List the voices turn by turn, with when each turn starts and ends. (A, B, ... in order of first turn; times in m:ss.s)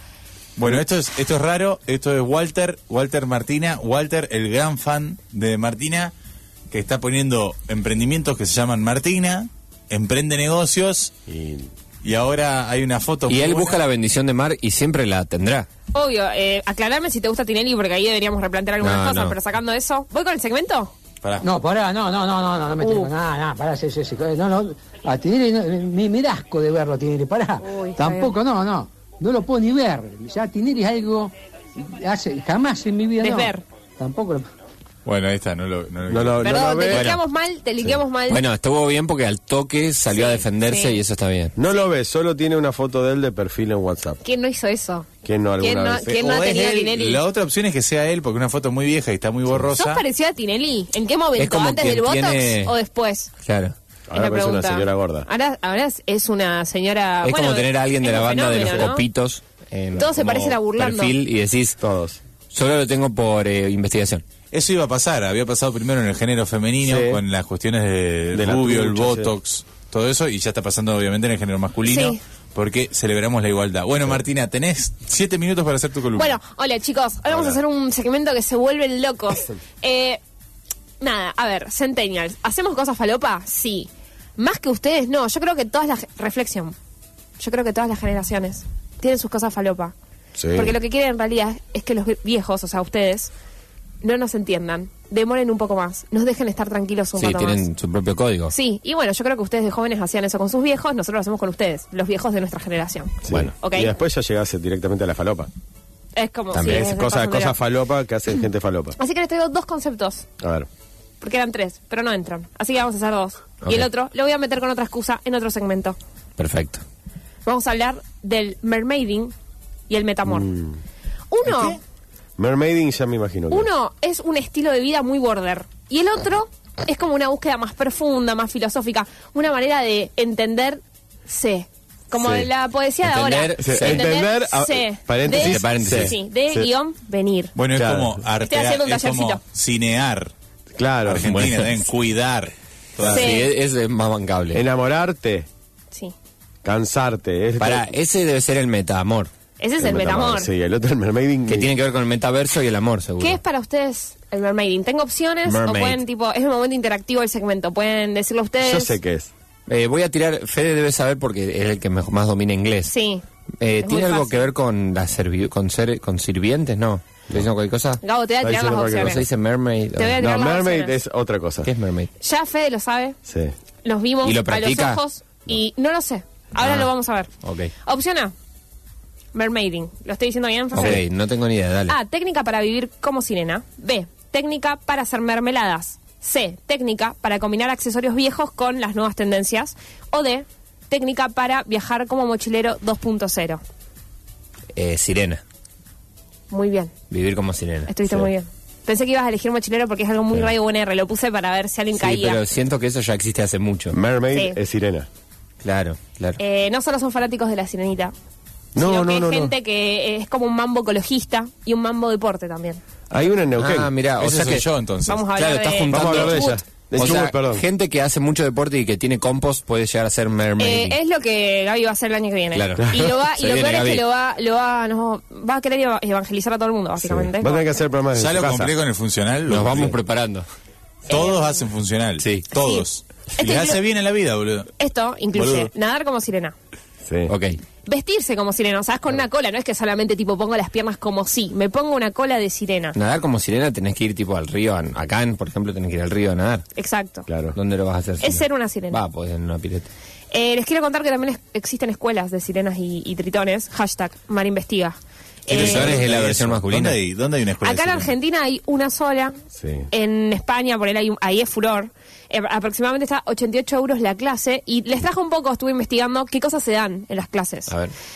0:00.6-0:06.1 A
0:06.7-0:11.1 A
0:11.3-0:11.7 B
0:12.0-0:13.8 A
0:13.3-0:15.7 C
0:15.9-0:20.9 D
0:18.8-0:19.4 C
0:21.4-0:34.5 E
0:22.8-0:23.1 D
0:27.6-0:28.3 D
0:33.2-0:33.6 D
0:35.1-0:37.1 A
0:36.1-0:37.1 B
0:36.4-0:38.4 D
0:36.9-0:37.2 C
0:38.3-0:41.6 C
0:40.1-0:41.0 D
0:41.6-0:44.2 B
0:44.2-0:45.1 D
0:45.2-0:46.2 B
0:45.6-0:47.2 D
0:46.1-0:50.0 A
0:49.8-0:53.3 D
0:51.4-0:52.7 C
0:53.4-0:53.8 C
0:54.1-0:55.3 B
0:54.1-0:59.0 D
0:57.2-1:01.8 C
1:00.0-1:01.2 D
1:01.8-1:02.2 B
1:02.5-1:04.2 C
1:04.5-1:16.4 A
1:06.8-1:07.2 B
1:08.3-1:09.3 B
1:11.9-1:12.2 D
1:16.2-1:20.2 D
1:21.0-1:26.8 D
1:27.4-1:29.9 D
1:30.4-1:30.8 B
1:30.5-1:33.3 D
1:34.0-1:37.6 D
1:37.2-1:38.5 C
1:38.5-1:43.9 D
1:43.2-1:45.5 B
1:46.2-1:47.6 D
1:46.5-1:46.8 C
1:46.7-1:49.0 B
1:49.0-1:50.3 D
1:50.4-1:50.7 B
1:51.2-1:56.0 D
1:53.6-1:53.9 C
1:56.4-1:56.8 C
1:57.5-1:59.3 D
1:59.9-2:00.5 D
2:00.3-2:00.8 B
2:01.3-2:01.8 D
2:01.5-2:01.8 A
2:02.4-2:03.7 B
2:03.5-2:17.5 D
2:13.0-2:14.1 C
2:13.6-2:16.7 B
2:15.2-2:16.2 C
2:17.6-2:20.3 A
2:17.7-2:18.2 B
2:18.4-2:19.4 D
2:20.8-2:21.6 B
2:21.1-2:23.3 A
2:21.3-2:21.6 C
2:23.0-2:24.6 C
2:23.1-2:23.5 D
2:24.5-2:25.5 B
2:26.6-2:27.9 B
2:27.6-2:29.3 C
2:29.6-2:30.5 D
2:29.8-2:31.8 B
2:31.5-2:33.4 C
2:33.2-2:39.0 D
2:35.5-2:36.0 C
2:38.6-2:39.3 B
2:39.7-2:42.9 C
2:42.9-2:43.2 D
2:43.6-2:48.0 C
2:43.8-2:44.5 D
2:48.0-2:49.2 D
2:48.4-2:49.3 B
2:48.9-2:50.2 C
2:50.0-2:51.0 D
2:50.2-2:51.7 B
2:51.6-2:52.1 C
2:52.2-2:53.2 D
2:53.3-2:53.5 B
2:53.8-2:57.3 D
2:54.2-2:55.0 C
2:56.6-2:56.9 C
2:57.4-2:57.7 C
2:57.8-2:58.3 D
2:59.3-3:01.0 D
3:00.7-3:02.0 C
3:01.9-3:13.6 D
3:14.8-3:15.4 C
3:16.5-3:16.9 D
3:17.1-3:18.2 C
3:17.9-3:22.4 D
3:22.0-3:24.0 C
3:23.9-3:25.1 B
3:25.6-3:26.4 C
3:26.4-3:28.1 D
3:28.8-3:29.5 B
3:28.8-3:32.8 D
3:33.1-3:33.9 B
3:33.6-3:34.6 C
3:34.2-3:35.2 A
3:35.1-3:36.6 D
3:35.3-3:41.0 C
3:35.9-3:37.6 B
3:40.6-3:47.6 D
3:42.5-3:44.0 C
3:42.8-3:43.1 B
3:47.0-3:48.7 B
3:48.2-3:49.9 A
3:49.5-3:50.4 C
3:49.6-3:49.9 B
3:51.1-3:51.6 D
3:51.1-3:54.7 A
3:52.5-3:52.8 D
3:53.4-3:53.8 D
3:54.8-3:56.6 D
3:55.4-3:55.7 A
3:57.0-3:57.3 B
3:57.3-3:57.6 C
3:57.9-4:03.0 D
4:03.0-4:06.6 C
4:06.8-4:07.3 D
4:07.3-4:07.6 B
4:07.6-4:09.9 C
4:08.2-4:09.0 D
4:10.3-4:15.0 D
4:15.5-4:16.0 D
4:15.5-4:18.1 A
4:15.5-4:17.0 C
4:17.6-4:19.4 D
4:19.6-4:19.9 B
4:19.9-4:27.7 D
4:27.7-4:27.9 C